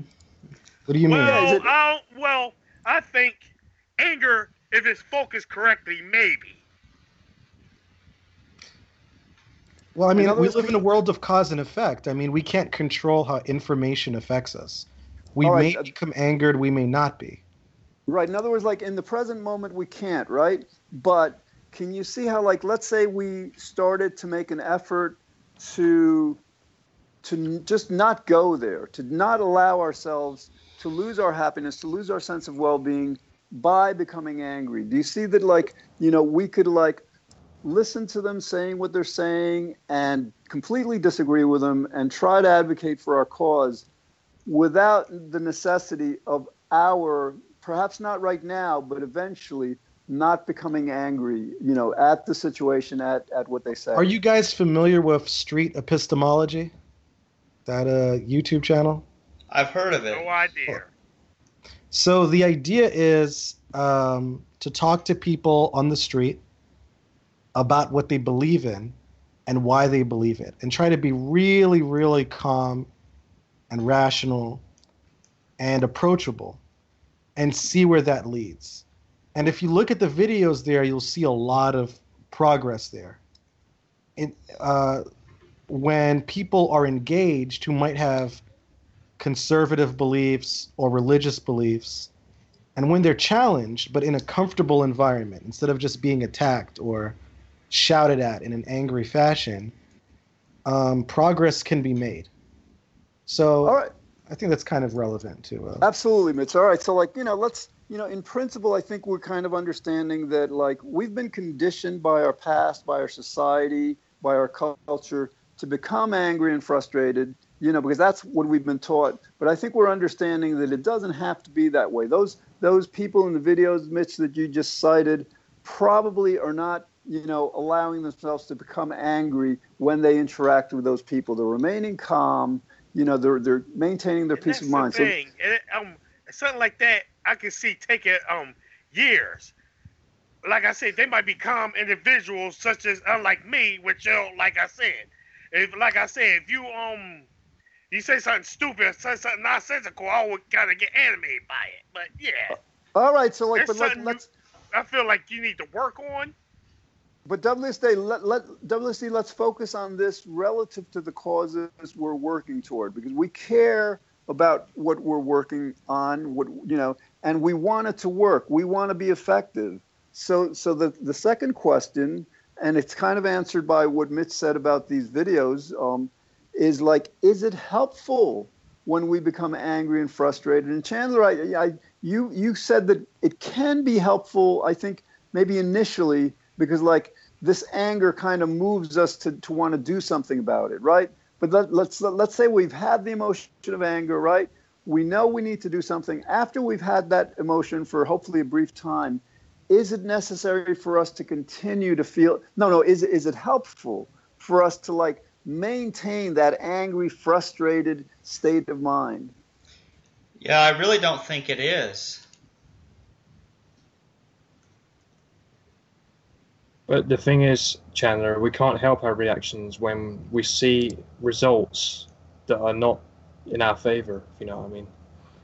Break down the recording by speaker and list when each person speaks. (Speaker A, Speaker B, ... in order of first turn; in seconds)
Speaker A: 0.9-1.5, 9.9-17.4, 54.0-56.7, 57.6-59.0, 61.9-66.4, 67.5-69.0, 69.5-72.9, 73.7-74.6, 75.6-76.6, 77.4-83.2, 84.2-85.0, 85.7-88.4, 89.2-92.1, 92.8-97.2, 97.7-99.7, 100.7-102.3, 103.3-105.9
Speaker B: 1.1-3.5, 4.0-6.6, 60.1-60.9, 134.4-139.5, 140.4-147.3, 147.9-152.6, 153.6-156.3
Speaker C: 1.2-1.7, 10.2-10.8, 15.4-15.9, 18.1-26.4, 27.2-37.0, 37.6-43.9, 44.5-54.1, 103.6-103.9, 105.8-135.2, 152.5-154.2, 157.3-209.3
Speaker D: 59.5-60.3, 210.4-212.2
Speaker E: 216.9-224.9